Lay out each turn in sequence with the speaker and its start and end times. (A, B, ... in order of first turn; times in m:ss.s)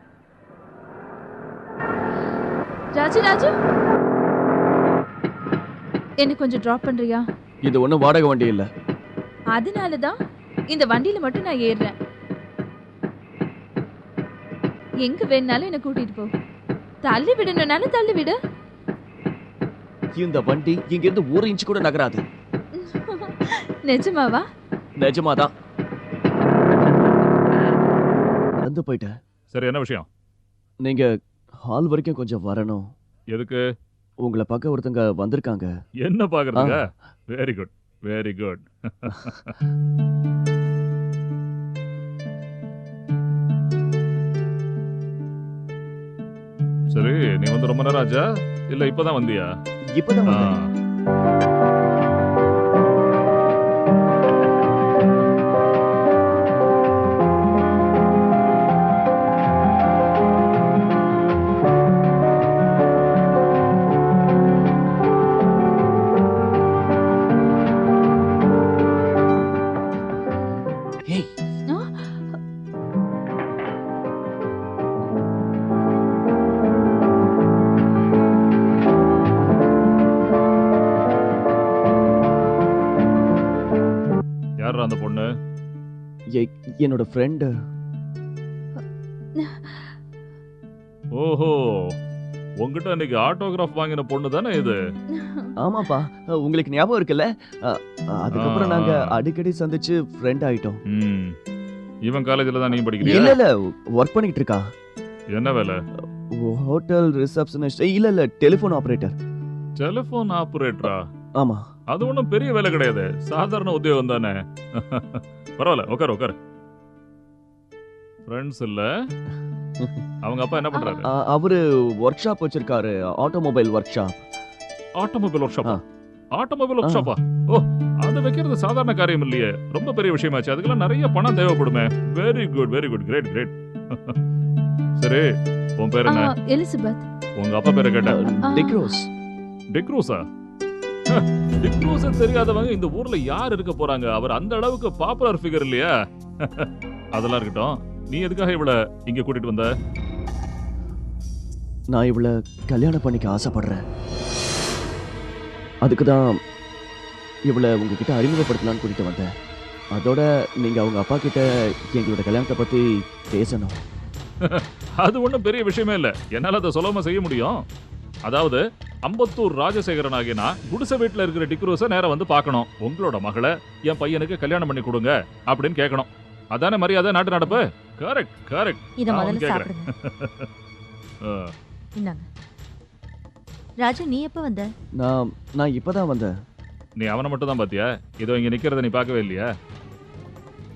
0:03.0-0:03.5 A
0:06.2-0:07.2 A
0:07.6-0:08.7 B
0:09.5-0:10.1 A
0:10.7-0:11.9 A
0:15.0-0:16.3 A
0:17.0-0:18.4 A
0:20.2-0:22.2 B
0:22.8-0:24.4 A
0:25.0-0:25.5 B
0:28.6-0:29.1 B
0:29.5-0:30.1 C
0:30.8-0:31.1 B
0:31.6-0:32.9 B
0:33.3-0:33.6 C
0:34.2-0:35.7 B
0:36.0-0:39.5 C
0:46.9-0:49.5 C
0:49.9-0:50.6 B
0:50.3-0:50.7 C
1:11.7-1:12.2 A
1:24.6-1:25.3 C
1:26.3-1:27.5 B
1:29.4-1:29.9 A
1:31.2-1:31.9 C
1:32.6-1:34.8 C
1:35.1-1:35.5 A
1:35.6-1:40.8 B
1:38.4-1:39.1 C
1:40.9-1:41.4 C
1:42.1-1:43.4 C
1:43.0-1:44.6 B
1:45.3-1:45.8 C
1:46.3-1:49.2 B
1:49.8-1:51.1 C
1:51.4-1:51.6 B
1:51.9-1:56.3 C
1:58.3-1:58.9 C
2:00.2-2:01.1 C
2:01.0-2:04.2 B
2:05.0-2:05.8 C
2:06.4-2:14.2 C
2:06.8-2:07.1 B
2:15.0-2:15.2 C
2:15.8-2:16.3 C
2:16.1-2:17.0 A
2:17.4-2:18.3 C
2:18.0-2:19.1 B
2:18.5-2:18.9 A
2:19.8-2:20.2 C
2:21.1-2:29.7 C
2:31.9-2:33.8 B
2:35.8-2:36.4 B
2:37.5-2:39.3 B
2:39.9-2:43.8 B
2:44.4-2:47.6 C
2:48.2-3:00.4 C
2:59.0-2:59.9 D
3:01.2-3:01.5 C
3:02.0-3:02.2 D
3:03.8-3:04.7 D
3:05.0-3:06.3 B
3:07.0-3:09.5 C